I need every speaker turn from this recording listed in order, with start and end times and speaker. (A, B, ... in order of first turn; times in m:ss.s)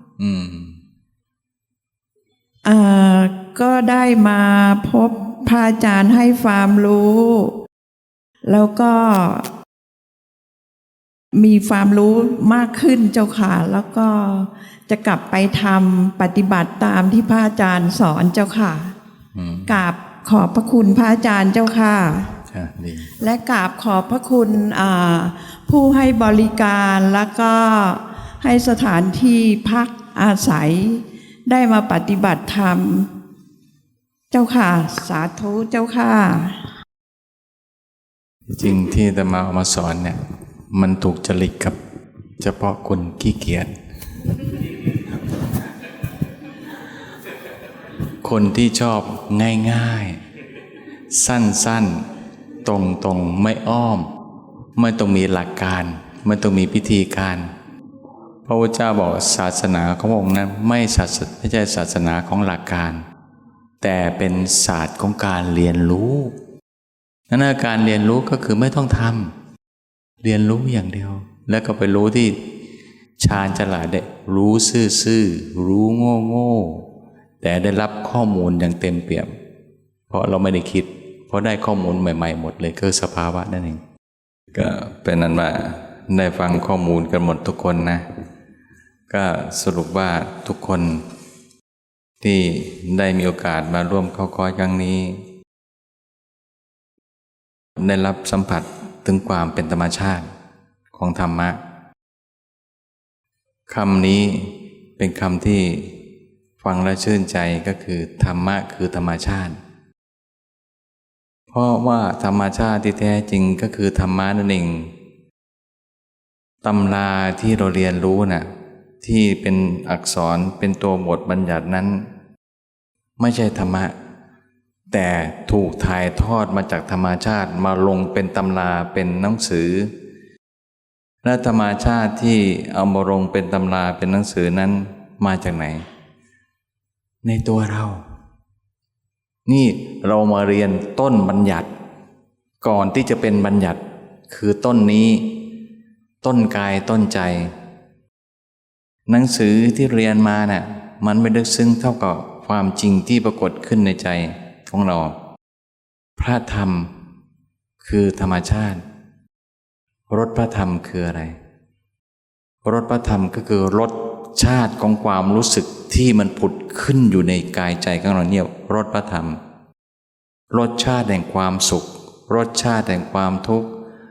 0:00.2-0:00.8 A
0:02.6-0:07.5 B
0:08.4-0:09.4 B
0:11.3-0:18.9 B
0:19.4-0:19.8 A
0:19.7-0:22.3 B
0:22.5-0:23.1 A
0:23.2-0:33.1 B
0:34.3-0:36.6 B
0:38.5-0:40.2 A
0:40.7-0:41.8 A
0:42.4-0:43.8 A
0:48.2-0:50.2 A
0:51.1-0:52.0 A
0:52.6-0:54.1 A
0:54.8-0:57.5 A
0:58.5-1:03.0 A
1:03.8-1:06.4 A
1:07.3-1:09.3 A
1:10.2-1:12.5 A
1:13.2-1:16.9 A
1:17.4-1:19.3 A
1:20.1-1:23.8 A
1:24.5-1:28.1 A
1:29.1-1:31.0 A
1:32.2-1:35.2 A
1:37.8-1:40.3 A
1:40.9-1:41.6 A
1:43.7-1:46.0 A
1:46.6-1:49.6 A
1:51.5-1:54.9 A
1:56.6-1:58.5 A
1:59.0-2:02.1 A
2:03.2-2:04.0 A
2:04.9-2:09.9 A
2:11.2-2:15.8 A
2:17.2-2:18.0 A
2:19.5-2:21.7 A
2:22.6-2:25.4 A
2:26.2-2:27.5 A
2:29.1-2:35.2 A
2:36.2-2:36.9 A
2:37.8-2:38.8 A
2:40.1-2:41.4 A
2:42.6-2:49.4 A
2:50.5-2:53.7 A